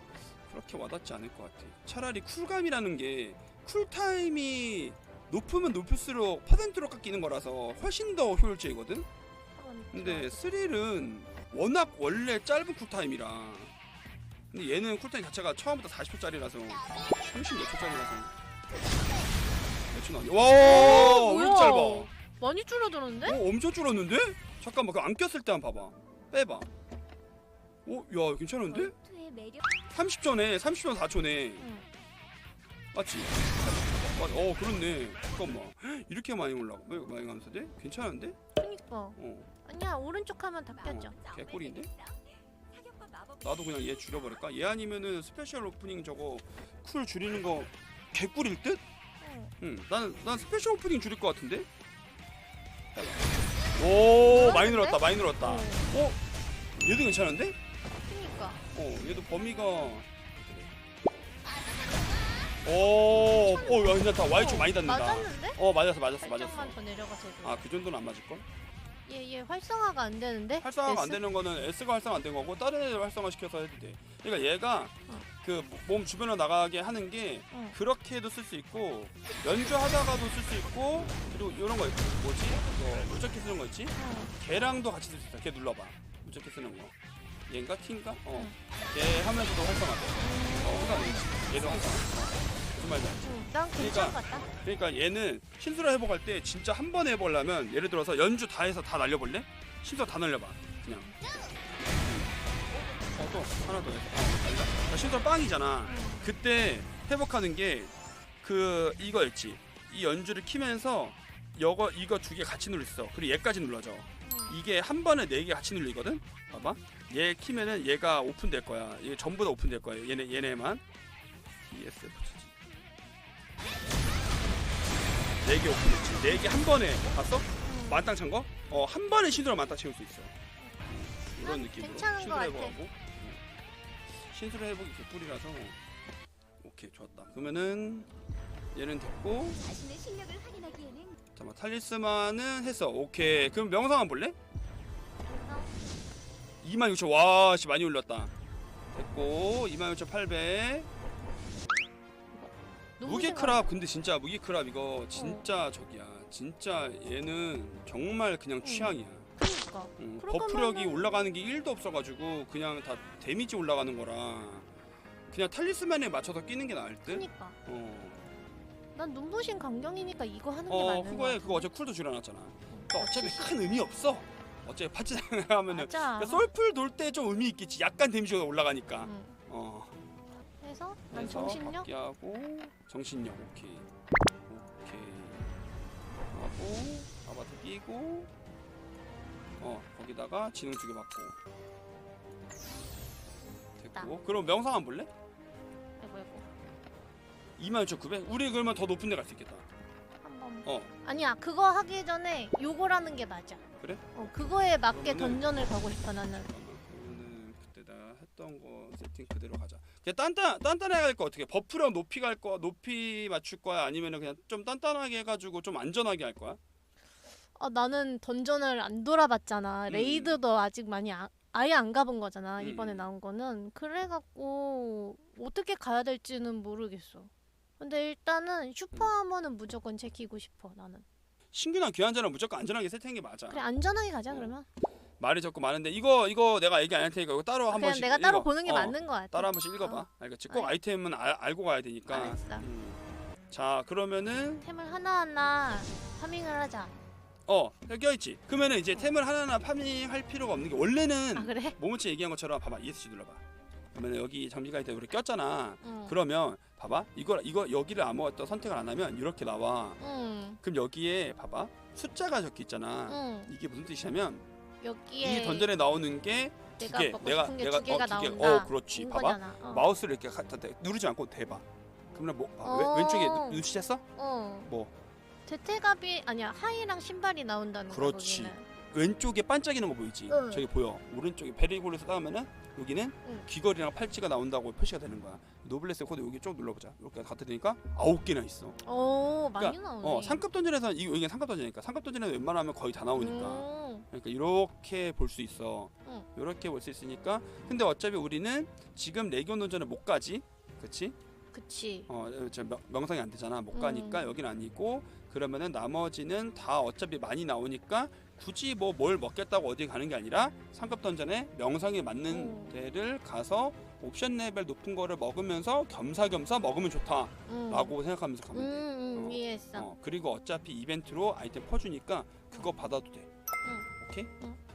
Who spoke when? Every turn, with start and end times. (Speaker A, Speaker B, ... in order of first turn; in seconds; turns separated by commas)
Speaker A: 0.4-9.1, Speaker B: 9.5-10.3, Speaker A: 9.9-13.7, Speaker A: 14.5-18.3, Speaker A: 19.9-22.1, Speaker B: 20.6-23.4, Speaker A: 23.2-26.7, Speaker A: 27.8-28.9, Speaker C: 28.7-29.6, Speaker A: 29.9-31.7, Speaker B: 31.6-31.9, Speaker A: 32.9-38.4, Speaker B: 38.6-41.1, Speaker A: 39.2-39.5, Speaker C: 40.7-44.2, Speaker A: 40.8-41.9, Speaker A: 43.4-48.8, Speaker B: 49.2-49.5, Speaker A: 49.6-51.7, Speaker A: 52.9-56.2, Speaker B: 54.2-55.9, Speaker A: 56.8-57.6, Speaker B: 58.0-59.9, Speaker A: 58.7-60.7, Speaker B: 61.5-62.3, Speaker A: 62.6-66.8, Speaker B: 63.1-65.6, Speaker B: 66.2-67.6, Speaker A: 67.4-68.4, Speaker B: 69.0-71.2, Speaker A: 70.6-86.9, Speaker B: 84.0-84.3, Speaker A: 87.5-101.1, Speaker B: 90.2-92.0, Speaker B: 93.2-94.5, Speaker A: 102.0-102.3, Speaker A: 103.1-120.8, Speaker B: 105.8-106.2, Speaker B: 114.2-114.6, Speaker A: 121.7-122.5, Speaker A: 125.4-130.3, Speaker B: 126.2-126.6, Speaker B: 127.6-128.1, Speaker A: 130.9-133.4, Speaker B: 131.4-132.8, Speaker A: 134.1-135.8, Speaker A: 136.6-138.1, Speaker A: 138.7-139.6, Speaker C: 139.6-141.2, Speaker A: 141.3-144.3, Speaker C: 145.2-145.7, Speaker A: 146.6-148.3, Speaker A: 148.9-150.9, Speaker B: 152.3-153.6, Speaker A: 153.0-159.3, Speaker B: 155.1-155.4, Speaker B: 158.6-161.2, Speaker A: 160.0-164.7, Speaker A: 165.3-168.2, Speaker B: 167.0-167.6, Speaker B: 168.9-171.7, Speaker A: 170.7-180.0, Speaker B: 172.7-173.5, Speaker B: 175.7-176.5, Speaker B: 179.0-179.4, Speaker B: 180.6-181.9, Speaker A: 181.1-183.9, Speaker A: 184.5-185.5, Speaker A: 186.3-188.3, Speaker A: 189.6-191.3, Speaker A: 193.8-195.1, Speaker B: 196.0-196.5, Speaker A: 197.6-199.7, Speaker B: 200.2-206.5, Speaker A: 200.6-200.9, Speaker A: 203.8-204.1, Speaker A: 204.9-205.4, Speaker A: 206.4-216.6, Speaker B: 217.5-231.0, Speaker A: 219.9-220.4, Speaker A: 222.6-223.1, Speaker A: 231.5-233.6, Speaker B: 233.5-234.6, Speaker A: 235.2-244.7, Speaker B: 237.7-240.7, Speaker B: 242.1-242.7, Speaker B: 244.6-246.9, Speaker A: 247.5-260.0, Speaker B: 251.3-251.8, Speaker B: 255.8-256.2, Speaker B: 260.0-260.6, Speaker A: 260.6-264.4, Speaker B: 263.1-263.5, Speaker B: 264.8-265.7, Speaker A: 265.2-274.0, Speaker B: 266.8-269.9, Speaker B: 272.6-273.6, Speaker B: 274.1-274.7, Speaker A: 274.6-274.9, Speaker B: 275.4-278.7, Speaker A: 277.9-288.8, Speaker B: 280.3-280.6, Speaker B: 288.8-290.4, Speaker A: 289.6-301.1, Speaker B: 293.1-294.1, Speaker B: 301.5-302.1, Speaker A: 302.1-323.3, Speaker B: 303.7-304.3, Speaker B: 312.3-312.7, Speaker B: 317.5-317.9, Speaker B: 318.5-319.9, Speaker A: 323.9-324.3